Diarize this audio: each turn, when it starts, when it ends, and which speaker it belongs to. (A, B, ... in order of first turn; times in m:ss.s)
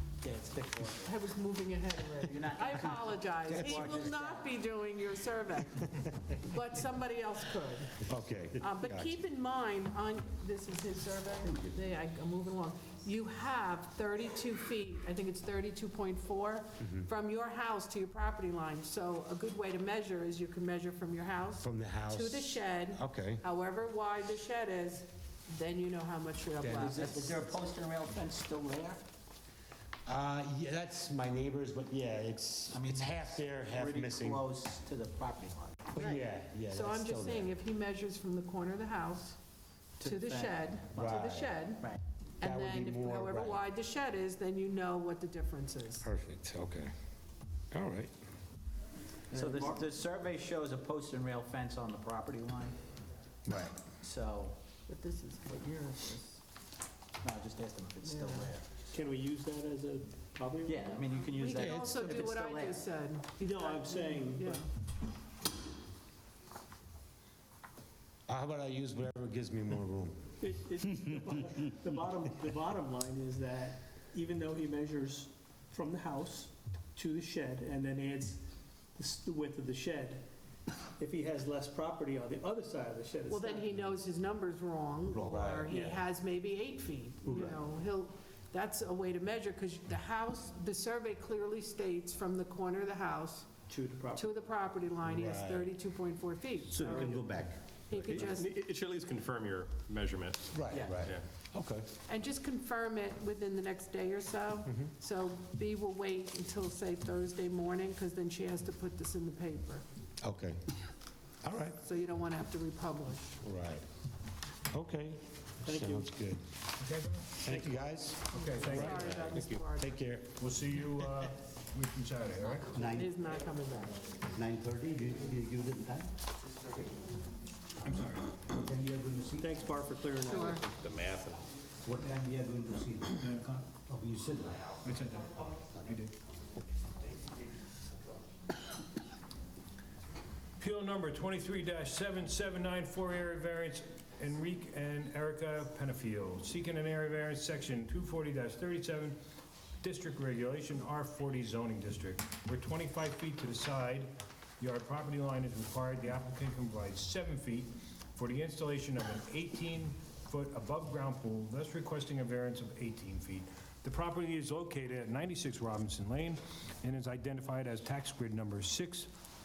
0:00.2-0:01.1 A
0:01.0-0:08.0 B
0:02.2-0:04.5 A
0:03.6-0:03.9 C
0:08.0-0:09.2 C
0:08.6-0:27.5 B
0:16.8-0:17.1 C
0:21.6-0:23.4 C
0:26.6-0:27.3 C
0:26.6-0:29.1 A
0:30.0-0:34.5 C
0:32.7-0:36.0 A
0:36.0-0:37.5 C
0:36.0-0:39.4 B
0:40.0-0:41.2 A
0:40.0-0:41.8 B
0:41.0-0:41.6 C
0:42.4-0:43.6 C
0:42.4-0:46.1 B
0:46.0-0:46.9 C
0:47.7-0:48.1 C
0:49.3-0:52.8 A
0:53.5-0:53.8 C
0:53.8-0:54.6 A
0:54.9-0:56.2 B
0:57.2-0:58.7 A
0:58.0-0:58.5 B
0:58.9-1:01.0 D
1:00.6-1:02.8 A
1:01.1-1:04.7 B
1:03.4-1:04.6 D
1:08.3-1:10.2 C
1:10.4-1:20.2 D
1:21.0-1:23.7 D
1:23.3-1:33.5 B
1:25.1-1:26.0 C
1:27.3-1:27.6 D
1:33.7-1:34.3 D
1:34.1-1:37.2 B
1:35.0-1:35.7 C
1:36.8-1:37.5 E
1:36.8-1:37.2 D
1:37.9-1:38.5 B
1:38.1-1:41.2 F
1:40.5-1:41.9 C
1:40.7-1:41.0 A
1:42.1-1:49.8 B
1:44.6-1:44.9 C
1:50.2-1:50.6 C
1:51.4-1:51.8 C
1:51.8-1:53.4 B
1:53.4-1:53.8 C
1:54.7-1:56.5 C
1:55.6-1:56.1 D
1:56.8-1:57.5 G
1:57.4-2:00.4 C
1:57.5-1:57.8 D
1:58.3-1:59.3 G
1:58.3-1:59.9 B
2:00.4-2:02.7 G
2:02.6-2:04.0 B
2:02.8-2:03.0 E
2:04.4-2:06.1 E
2:07.8-2:08.4 G
2:08.5-2:09.5 E
2:09.4-2:10.6 D
2:10.2-2:10.6 B
2:10.4-2:11.4 F
2:11.8-2:13.2 E
2:13.9-2:14.6 E
2:14.8-2:16.1 G
2:20.6-2:29.2 G
2:29.8-2:49.1 G